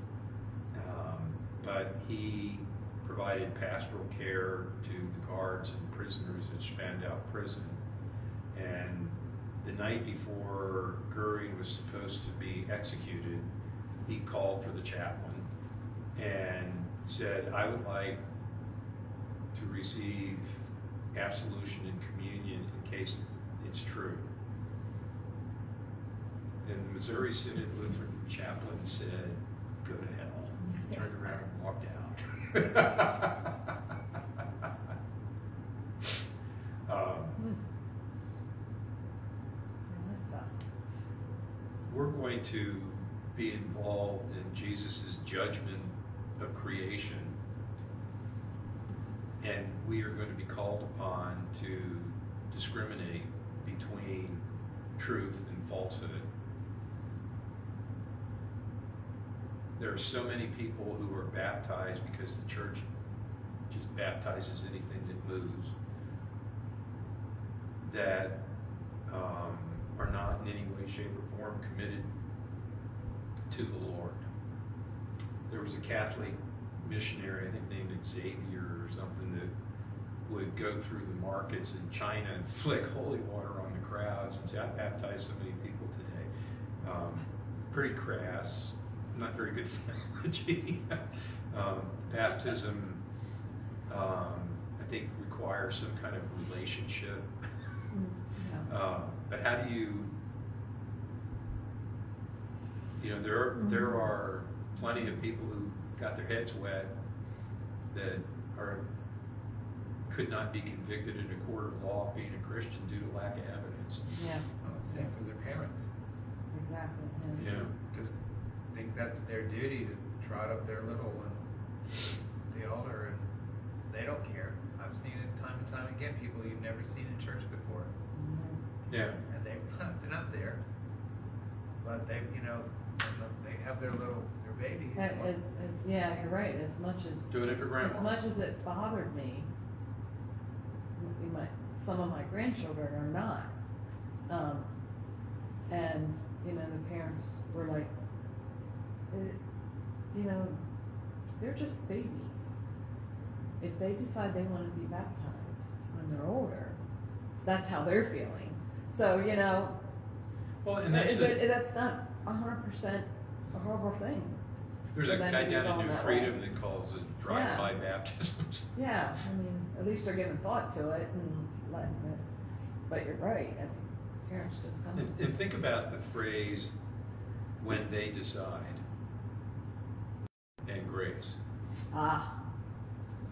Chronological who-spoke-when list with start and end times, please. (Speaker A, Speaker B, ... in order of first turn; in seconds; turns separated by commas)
Speaker A: 0.7-7.8, Speaker A: 8.5-13.5, Speaker A: 14.1-15.4, Speaker A: 16.1-18.2, Speaker A: 19.5-24.2, Speaker A: 26.6-33.4, Speaker A: 36.9-37.5, Speaker B: 39.9-40.5, Speaker A: 41.9-47.3, Speaker A: 49.4-54.4, Speaker A: 55.0-56.2, Speaker A: 59.8-62.8, Speaker A: 63.7-65.7, Speaker A: 67.8-68.4, Speaker A: 69.1-72.1, Speaker A: 73.5-74.2, Speaker A: 75.5-79.5, Speaker A: 80.2-86.3, Speaker A: 86.8-93.0, Speaker A: 93.9-97.3, Speaker B: 97.9-98.7, Speaker A: 98.7-100.1, Speaker A: 103.0-106.9, Speaker A: 107.9-108.8, Speaker A: 110.1-114.0, Speaker B: 114.2-114.5, Speaker C: 114.6-115.9, Speaker B: 116.5-117.4, Speaker A: 117.4-117.7, Speaker C: 117.4-118.1, Speaker C: 118.7-123.3, Speaker C: 123.9-127.9, Speaker B: 128.1-128.6, Speaker A: 128.9-129.2, Speaker C: 129.3-130.6, Speaker C: 131.8-135.3, Speaker B: 134.9-139.5, Speaker A: 137.3-138.1, Speaker B: 141.0-143.5, Speaker B: 144.3-144.7, Speaker B: 145.7-147.9, Speaker B: 149.1-149.4, Speaker B: 150.1-150.6, Speaker B: 151.4-152.5, Speaker B: 153.6-156.8, Speaker B: 157.4-159.8, Speaker A: 160.6-161.4, Speaker B: 160.9-164.4, Speaker A: 164.9-168.7, Speaker B: 165.0-166.3, Speaker B: 167.3-167.7, Speaker B: 168.8-172.2, Speaker B: 172.9-175.1, Speaker A: 174.9-176.7, Speaker A: 177.6-178.8, Speaker A: 180.7-181.4, Speaker B: 181.9-182.3